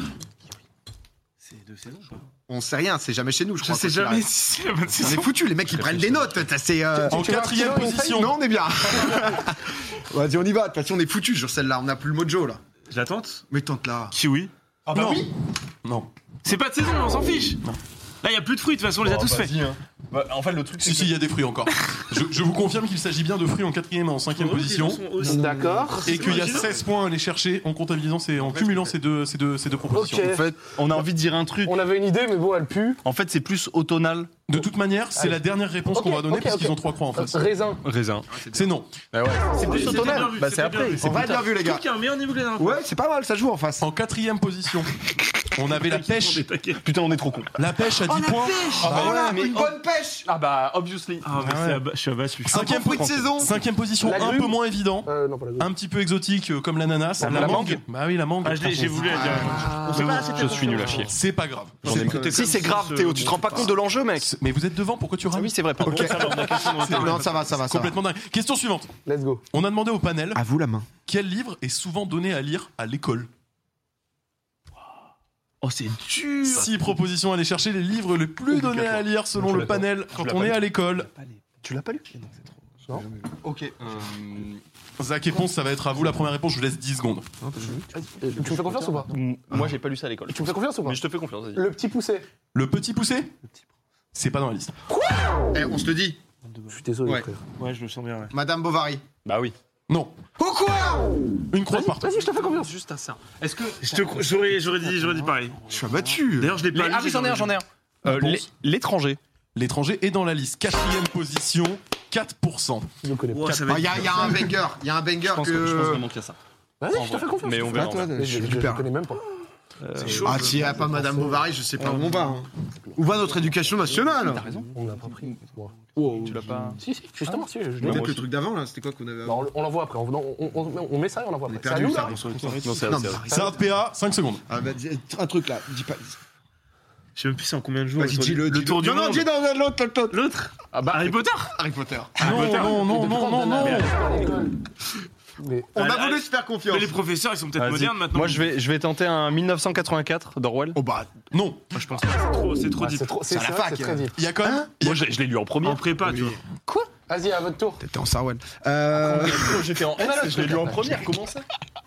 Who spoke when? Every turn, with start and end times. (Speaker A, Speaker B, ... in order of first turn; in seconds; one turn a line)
Speaker A: 1.4-2.2
Speaker B: 2.5-4.3
Speaker A: 3.6-6.3
Speaker B: 5.0-7.2
Speaker C: 6.9-8.3
Speaker D: 7.1-8.3
Speaker B: 8.1-12.6
Speaker A: 12.9-13.4
Speaker B: 13.5-14.1
Speaker A: 14.1-14.5
Speaker E: 14.9-15.3
Speaker D: 14.9-15.3
Speaker D: 15.8-16.1
Speaker A: 16.4-17.6
Speaker A: 18.2-19.6
Speaker E: 19.0-21.2
Speaker D: 20.8-25.1
Speaker A: 24.3-26.8
Speaker C: 25.2-26.0
Speaker D: 26.0-30.4
Speaker C: 29.9-31.0
Speaker E: 30.2-31.8
Speaker C: 31.6-33.0
Speaker E: 33.0-34.3
Speaker D: 34.5-37.5
Speaker C: 35.1-37.8
Speaker E: 37.8-38.5
Speaker B: 38.3-38.7
Speaker D: 38.5-39.0
Speaker E: 39.1-41.3
Speaker A: 39.5-42.8
Speaker B: 41.0-41.8
Speaker B: 42.5-43.9
Speaker D: 43.8-44.9
Speaker D: 45.5-46.5
Speaker A: 45.7-46.8
Speaker E: 46.8-47.5
Speaker D: 47.5-49.0
Speaker B: 48.0-50.3
Speaker E: 48.7-51.3
Speaker C: 48.8-49.4
Speaker A: 51.2-52.5
Speaker D: 51.4-51.8
Speaker D: 52.5-59.5
Speaker B: 52.5-53.5
Speaker E: 52.5-53.4
Speaker C: 54.0-55.7
Speaker E: 57.2-57.8
Speaker A: 57.2-57.8
Speaker A: 58.4-61.1
Speaker B: 59.1-60.7
Speaker E: 59.1-61.2
Speaker C: 60.5-61.0
Speaker D: 61.1-62.1
Speaker E: 61.8-64.3
Speaker A: 61.8-63.7
Speaker B: 62.1-62.3
Speaker D: 64.2-65.5
Speaker E: 65.3-67.2
Speaker A: 65.8-67.5
Speaker B: 65.8-68.0
Speaker D: 67.0-68.9
Speaker C: 69.0-69.4
Speaker D: 69.5-70.4
Speaker B: 70.3-70.9
Speaker D: 71.0-73.3
Speaker A: 75.6-76.8
Speaker D: 76.4-81.1
Speaker E: 78.5-80.6
Speaker A: 81.0-81.4
Speaker E: 81.6-82.1
Speaker A: 82.1-82.5
Speaker B: 82.9-83.8
Speaker E: 83.8-84.6
Speaker D: 85.0-87.3
Speaker B: 87.4-87.8
Speaker C: 88.0-89.1
Speaker E: 88.2-91.6
Speaker B: 89.5-89.7
Speaker C: 90.3-91.0
Speaker C: 91.5-92.3
Speaker D: 92.5-93.3
Speaker D: 94.1-94.7
Speaker B: 95.5-96.2
Speaker A: 96.4-96.8
Speaker C: 96.7-97.4
Speaker A: 97.6-98.3
Speaker B: 98.3-99.0
Speaker E: 99.2-99.5
Speaker D: 99.9-100.3
Speaker E: 100.4-101.0
Speaker B: 100.4-101.1
Speaker D: 101.5-102.4
Speaker C: 101.7-102.7
Speaker E: 101.8-105.1
Speaker A: 103.8-105.7
Speaker B: 105.6-106.6
Speaker A: 106.3-107.6
Speaker E: 106.7-109.2
Speaker D: 108.0-108.5
Speaker D: 109.5-112.9
Speaker C: 113.0-113.8
Speaker A: 113.3-114.5
Speaker B: 113.7-116.1
Speaker E: 115.2-116.4
Speaker C: 116.8-119.2
Speaker E: 116.9-118.5
Speaker B: 117.6-118.9
Speaker A: 119.8-120.8
Speaker C: 120.0-121.5
Speaker B: 120.1-124.5
Speaker A: 121.8-122.3
Speaker E: 123.8-125.0
Speaker A: 124.3-124.7
Speaker C: 124.7-125.7
Speaker A: 125.9-126.8
Speaker B: 126.0-126.6
Speaker E: 126.1-126.8
Speaker C: 126.8-128.1
Speaker B: 127.8-129.5
Speaker E: 127.8-128.2
Speaker C: 129.2-132.2
Speaker B: 131.5-133.5
Speaker A: 131.8-133.2
Speaker E: 132.4-133.5
Speaker D: 133.2-134.4
Speaker C: 133.3-133.5
Speaker B: 134.5-136.2
Speaker A: 137.2-139.3
Speaker B: 138.0-140.2
Speaker A: 140.1-141.6
Speaker B: 140.8-142.5
Speaker A: 142.2-142.8
Speaker D: 142.2-143.9
Speaker C: 142.3-144.5
Speaker A: 143.6-143.9
Speaker C: 145.4-145.7
Speaker B: 145.7-147.0
Speaker A: 145.8-148.5
Speaker E: 147.6-150.8
Speaker B: 150.7-151.1
Speaker D: 151.3-151.8
Speaker A: 151.7-153.1
Speaker C: 152.8-154.2
Speaker B: 153.3-154.7
Speaker D: 154.1-155.1
Speaker E: 154.7-155.8
Speaker A: 155.6-156.4
Speaker B: 156.0-156.4
Speaker C: 157.1-157.8
Speaker B: 157.8-160.7
Speaker E: 158.9-161.4
Speaker D: 160.1-161.0